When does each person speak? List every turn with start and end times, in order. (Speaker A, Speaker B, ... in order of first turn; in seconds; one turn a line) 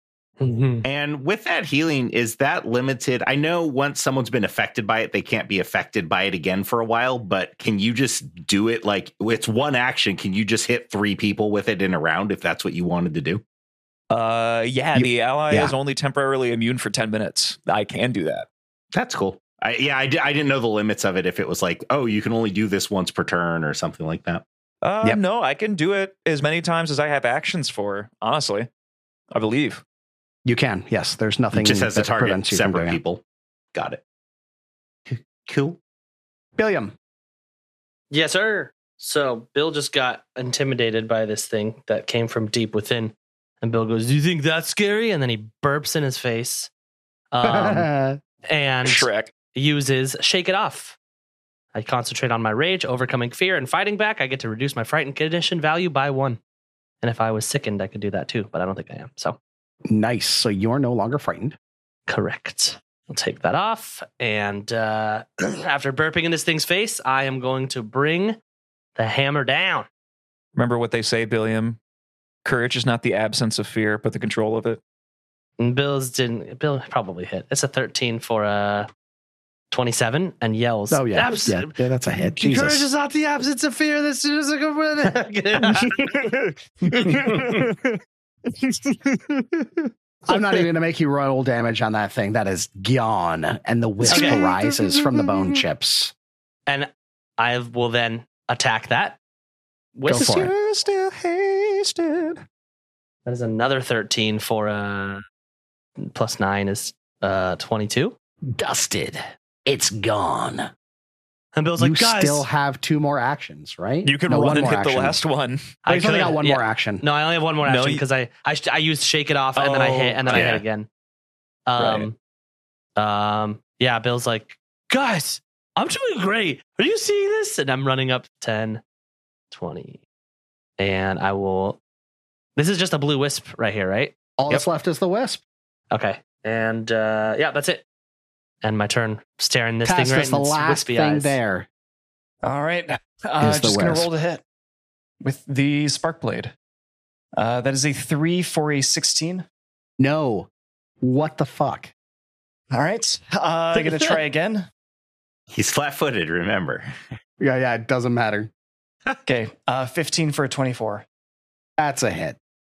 Speaker A: 0.4-0.8
Speaker B: 0.8-13.4
Speaker C: 14.1-18.5
Speaker D: 14.9-15.7
Speaker B: 18.9-24.4
Speaker C: 24.8-28.7
Speaker C: 29.3-29.8
Speaker D: 30.4-33.0
Speaker B: 31.5-33.2
Speaker B: 33.7-34.0
Speaker B: 35.1-35.8
Speaker D: 36.6-36.9
Speaker A: 38.1-46.7
Speaker A: 47.3-47.9
Speaker D: 47.4-48.2
Speaker A: 48.5-51.0
Speaker C: 48.8-49.3
Speaker A: 51.7-56.4
Speaker A: 57.0-59.4
Speaker D: 59.9-61.6
Speaker A: 62.1-68.4
Speaker A: 69.0-69.9
Speaker C: 70.5-71.8
Speaker C: 72.4-74.8
Speaker A: 75.6-78.9
Speaker A: 79.7-86.1
Speaker D: 80.9-82.8
Speaker C: 85.8-86.3
Speaker C: 87.1-87.8
Speaker C: 89.1-89.4
Speaker D: 90.3-96.1
Speaker C: 94.0-95.6
Speaker A: 94.0-94.4
Speaker A: 96.7-99.2
Speaker A: 100.0-100.5
Speaker D: 100.1-100.5
Speaker C: 100.1-102.4
Speaker A: 103.2-105.2
Speaker A: 106.0-108.1
Speaker D: 108.5-110.7
Speaker A: 111.5-112.5
Speaker D: 111.8-115.2
Speaker C: 114.0-115.8
Speaker A: 115.8-120.9
Speaker D: 115.9-117.0
Speaker C: 117.6-118.0
Speaker C: 119.5-120.6
Speaker A: 121.7-122.1
Speaker C: 121.8-122.1
Speaker A: 123.0-128.8
Speaker A: 129.5-130.0
Speaker A: 130.8-131.8
Speaker A: 132.6-134.6
Speaker D: 134.4-135.4
Speaker A: 135.9-137.8
Speaker A: 138.6-141.4
Speaker D: 139.8-141.7
Speaker E: 142.4-144.4
Speaker D: 143.4-144.1
Speaker E: 145.2-146.5
Speaker E: 147.3-149.4
Speaker D: 150.0-150.5
Speaker D: 151.0-151.9
Speaker E: 152.7-154.7
Speaker A: 153.7-154.2
Speaker B: 155.5-156.9
Speaker D: 157.4-158.5
Speaker E: 159.2-161.0
Speaker D: 161.8-162.4